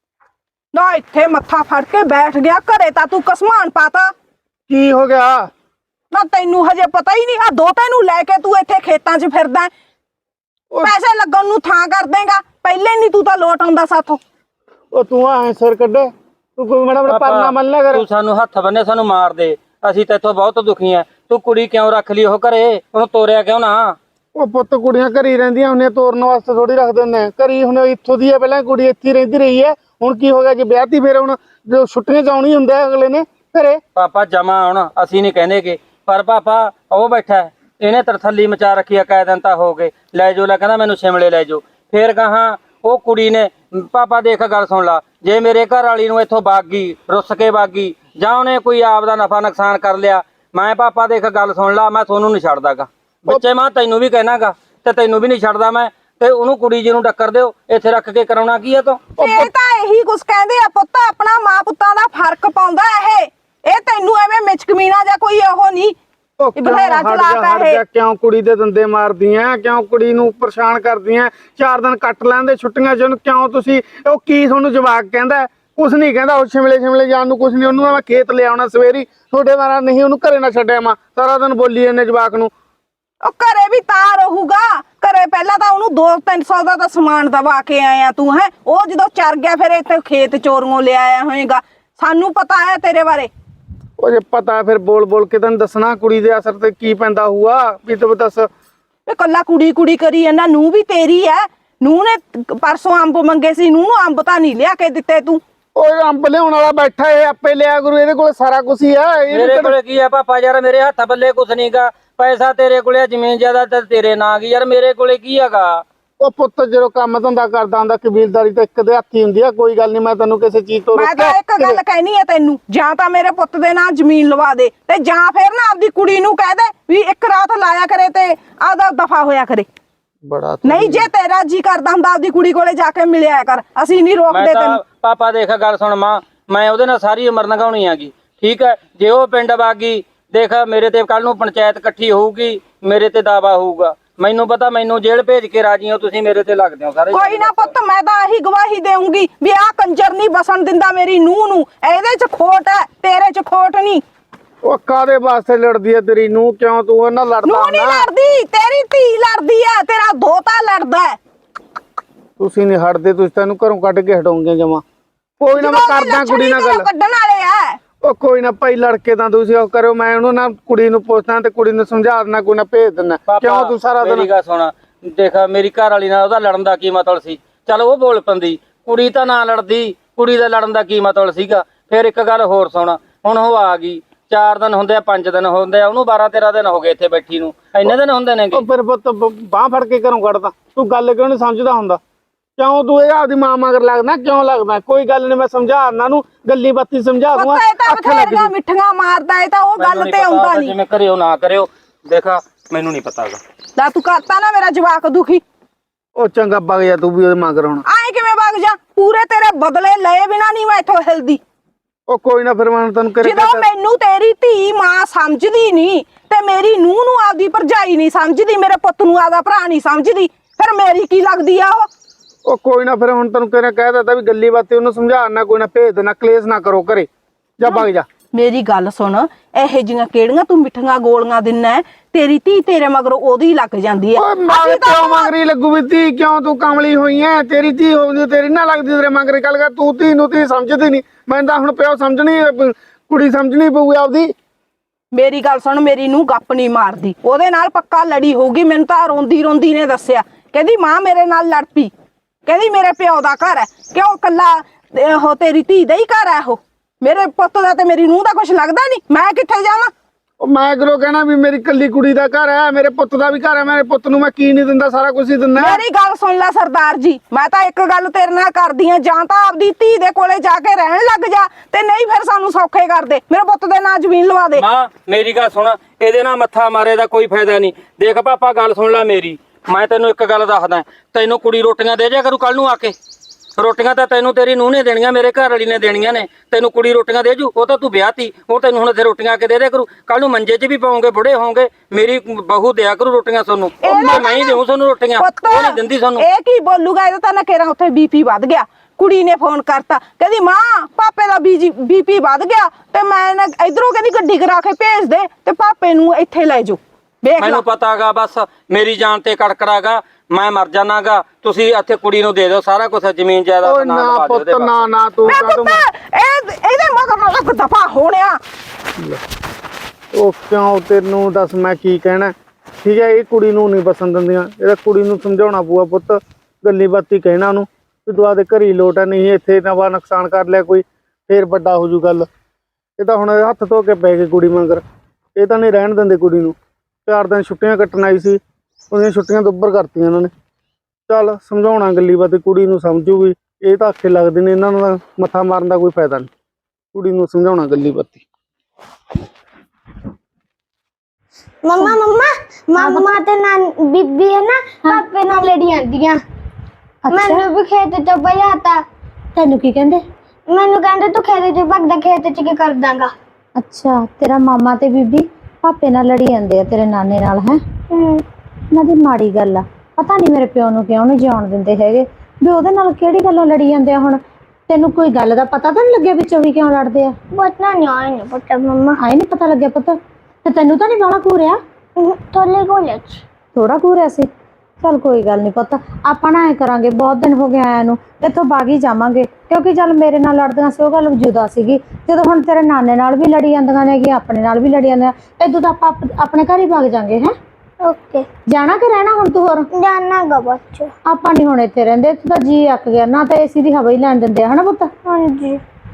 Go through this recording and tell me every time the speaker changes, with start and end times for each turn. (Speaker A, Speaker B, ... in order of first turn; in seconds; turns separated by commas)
Speaker A: 0.7-4.1, Speaker B: 4.7-5.5, Speaker A: 6.1-9.7, Speaker A: 10.8-14.2, Speaker B: 14.9-18.0, Speaker C: 17.1-24.0, Speaker B: 24.4-33.8, Speaker C: 34.0-59.0, Speaker B: 59.2-59.5, Speaker A: 59.2-66.0, Speaker B: 66.4-82.5, Speaker A: 66.5-67.8, Speaker A: 83.2-93.3, Speaker B: 94.0-98.5, Speaker A: 99.1-105.4, Speaker B: 105.8-109.8, Speaker C: 109.3-115.8, Speaker B: 116.2-121.8, Speaker A: 121.0-129.7, Speaker B: 130.2-131.1, Speaker A: 130.6-134.8, Speaker C: 134.3-147.7, Speaker A: 147.1-154.0, Speaker B: 154.6-158.1, Speaker A: 157.4-161.2, Speaker B: 162.4-164.8, Speaker B: 165.4-166.9, Speaker A: 165.6-167.8, Speaker B: 168.0-174.3, Speaker C: 173.3-188.6, Speaker B: 188.5-192.0, Speaker B: 192.6-198.5, Speaker A: 197.3-200.7, Speaker C: 199.8-203.4, Speaker A: 203.8-205.4, Speaker B: 206.2-207.8, Speaker A: 207.9-211.4, Speaker B: 212.1-213.7, Speaker A: 213.2-221.9, Speaker B: 222.4-228.1, Speaker A: 227.7-235.3, Speaker B: 234.2-244.3, Speaker A: 245.1-251.9, Speaker A: 252.5-259.9, Speaker B: 260.4-265.8, Speaker A: 265.6-274.6, Speaker C: 274.6-282.9, Speaker C: 283.6-296.2, Speaker A: 293.8-294.6, Speaker A: 295.2-307.6, Speaker C: 307.4-314.9, Speaker B: 313.6-315.8, Speaker A: 315.3-318.4, Speaker B: 320.1-332.3, Speaker B: 333.0-334.8, Speaker B: 335.4-340.3, Speaker B: 341.1-346.3, Speaker B: 346.9-348.2, Speaker D: 351.6-356.2, Speaker E: 352.8-353.1, Speaker E: 357.1-357.4, Speaker D: 357.1-358.8, Speaker E: 359.4-360.0, Speaker D: 360.5-363.1, Speaker E: 363.6-367.6, Speaker D: 367.9-368.2, Speaker E: 368.7-377.2, Speaker D: 377.3-379.0, Speaker E: 379.0-381.6, Speaker D: 382.0-383.2, Speaker E: 383.6-384.3, Speaker E: 384.8-397.4, Speaker D: 397.8-398.3, Speaker E: 398.5-399.7, Speaker D: 399.7-400.9, Speaker E: 401.1-404.9, Speaker D: 405.1-405.6